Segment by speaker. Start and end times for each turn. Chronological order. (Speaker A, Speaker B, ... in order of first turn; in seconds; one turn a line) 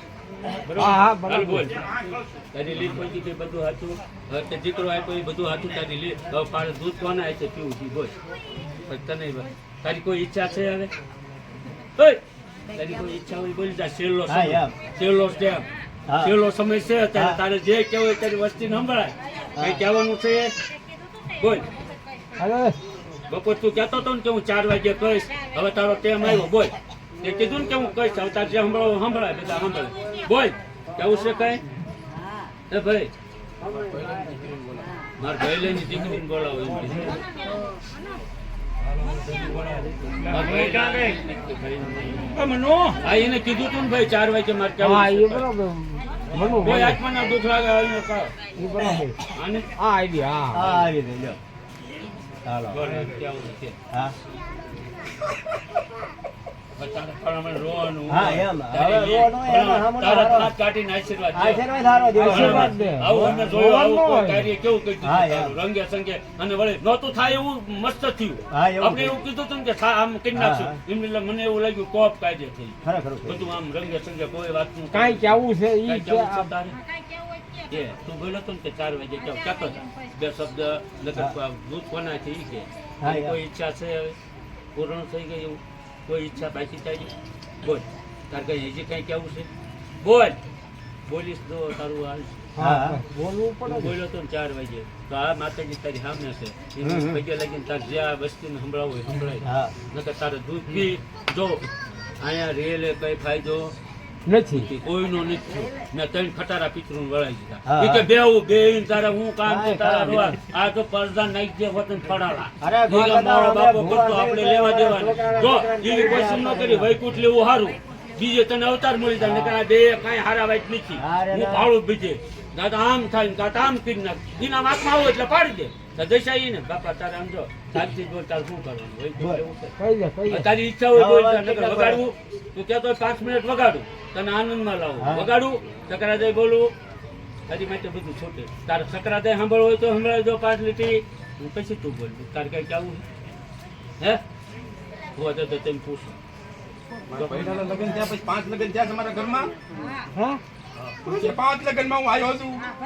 Speaker A: 0.5-1.9
Speaker B: 0.7-1.6
Speaker A: 2.5-8.1
Speaker A: 8.8-10.9
Speaker A: 12.0-20.6
Speaker C: 14.3-14.7
Speaker C: 16.1-16.3
Speaker C: 17.1-17.4
Speaker A: 21.3-21.7
Speaker B: 22.4-22.8
Speaker A: 23.3-31.6
Speaker A: 32.7-33.1
Speaker A: 35.2-37.2
Speaker A: 40.2-45.5
Speaker B: 42.4-43.0
Speaker B: 44.8-47.0
Speaker A: 46.3-48.3
Speaker B: 48.6-49.2
Speaker A: 49.3-49.7
Speaker B: 49.8-50.8
Speaker C: 50.5-51.4
Speaker C: 52.5-52.9
Speaker A: 52.7-53.8
Speaker A: 56.8-76.8
Speaker C: 58.1-60.5
Speaker C: 61.3-62.8
Speaker B: 62.1-64.5
Speaker C: 65.0-65.5
Speaker C: 68.5-69.2
Speaker C: 70.3-70.8
Speaker C: 72.8-73.4
Speaker B: 74.9-76.5
Speaker A: 77.6-84.2
Speaker C: 83.0-83.4
Speaker A: 84.7-89.5
Speaker A: 90.0-90.4
Speaker A: 91.0-92.5
Speaker B: 92.5-93.9
Speaker C: 92.6-93.0
Speaker A: 93.6-101.7
Speaker B: 96.8-97.2
Speaker C: 99.4-99.7
Speaker A: 102.2-103.7
Speaker B: 104.2-104.7
Speaker A: 104.5-129.7
Speaker C: 107.7-108.1
Speaker C: 109.4-110.4
Speaker C: 112.6-116.9
Speaker C: 119.2-119.6
Speaker C: 121.0-121.7
Speaker B: 129.8-130.5
Speaker A: 130.2-136.7
Speaker C: 130.9-132.0
Speaker C: 135.0-135.3
Speaker A: 137.5-143.0
Speaker A: 145.1-146.2
Speaker A: 147.1-147.7
Speaker D: 147.1-149.5
Speaker B: 150.1-150.4
Speaker D: 151.0-152.7